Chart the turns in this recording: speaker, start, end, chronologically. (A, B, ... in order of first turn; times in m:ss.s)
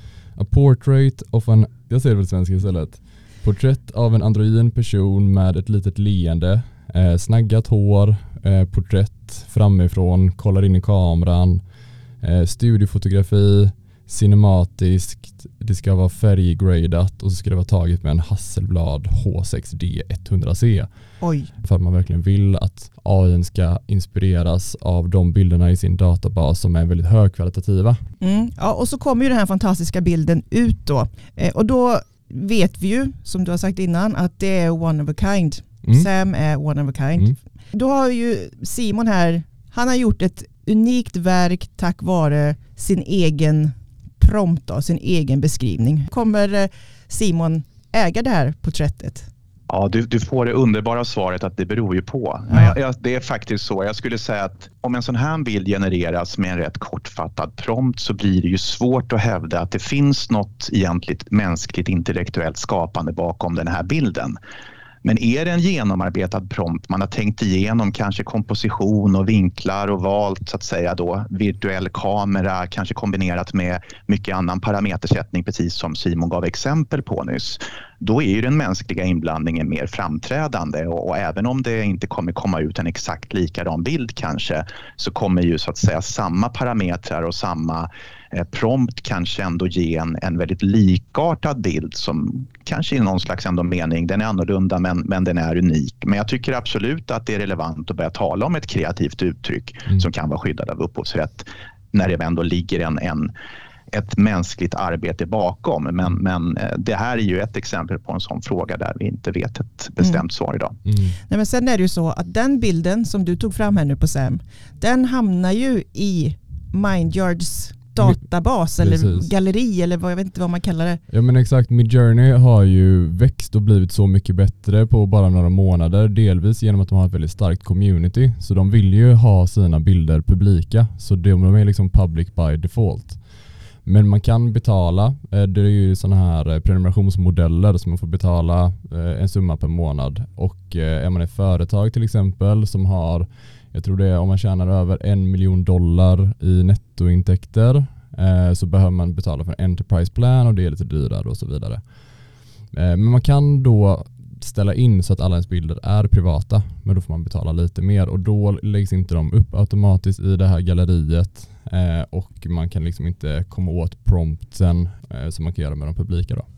0:00.4-0:11.6 A
0:12.2-0:20.9 A
0:21.2-0:21.5 B
0:21.6-0:28.0 A
0:28.2-0:49.3 B
0:49.7-1:04.4 C
0:52.5-0:52.7 B
1:05.0-1:43.3 C
1:43.9-1:50.8 C
1:50.8-1:51.2 A
1:51.3-2:01.0 B
1:58.8-1:59.3 A
2:01.1-2:13.2 A
2:13.8-2:31.8 A
2:32.7-2:46.4 A